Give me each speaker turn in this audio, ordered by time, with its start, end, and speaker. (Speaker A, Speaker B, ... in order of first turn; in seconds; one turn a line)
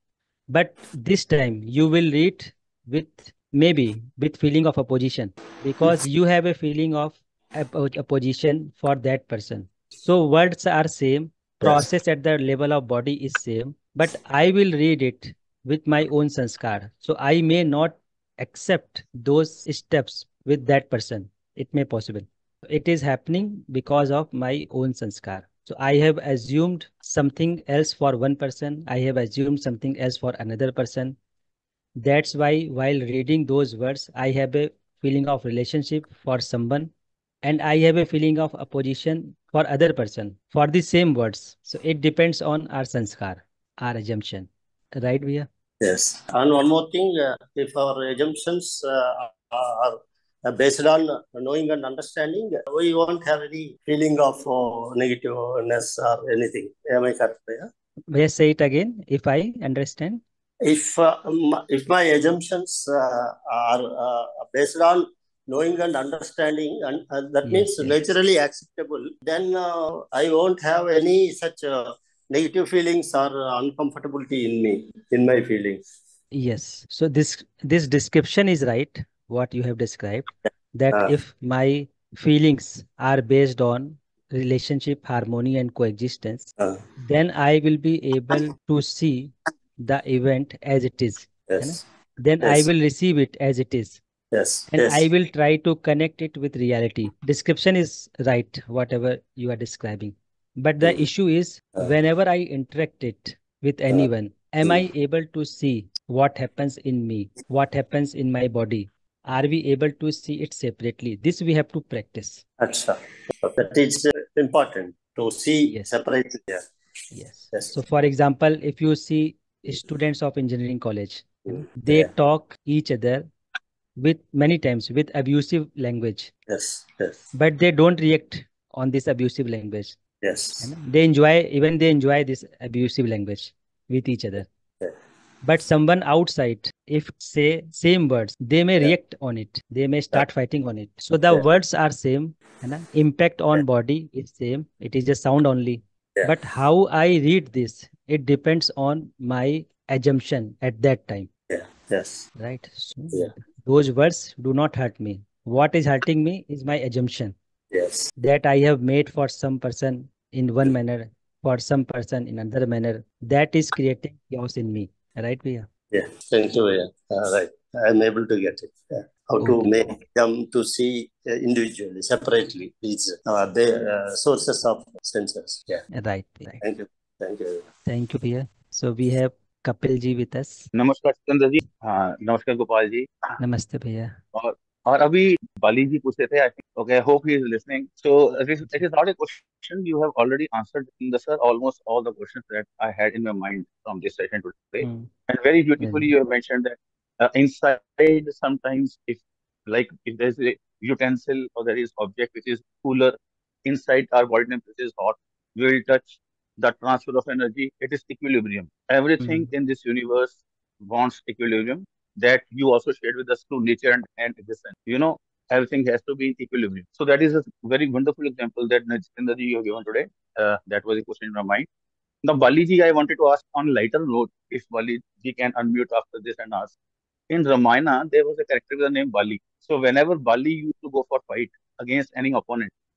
Speaker A: 0.5-31.1
Speaker A: 32.0-36.9
Speaker A: 37.4-45.5
Speaker B: 45.8-57.7
Speaker A: 58.1-60.2
Speaker B: 60.6-75.8
Speaker A: 67.4-67.9
Speaker A: 76.3-94.0
Speaker B: 91.5-91.8
Speaker B: 92.4-92.7
Speaker B: 94.3-95.1
Speaker A: 94.7-112.4
Speaker B: 112.6-116.7
Speaker A: 115.7-115.9
Speaker A: 117.1-123.3
Speaker B: 121.5-122.1
Speaker A: 124.0-126.3
Speaker B: 126.5-127.2
Speaker A: 127.3-129.9
Speaker B: 130.2-130.7
Speaker A: 130.6-134.5
Speaker A: 135.4-151.3
Speaker B: 151.5-152.3
Speaker A: 152.4-157.3
Speaker B: 157.7-158.1
Speaker A: 158.2-165.7
Speaker B: 165.9-175.8
Speaker A: 169.4-169.7
Speaker A: 175.9-176.6
Speaker B: 176.6-177.7
Speaker A: 177.8-180.7
Speaker C: 180.7-183.1
Speaker A: 183.4-184.2
Speaker C: 184.3-203.1
Speaker A: 194.8-195.1
Speaker A: 195.8-196.1
Speaker C: 203.6-221.7
Speaker A: 209.2-209.5
Speaker C: 222.2-226.7
Speaker C: 227.3-232.7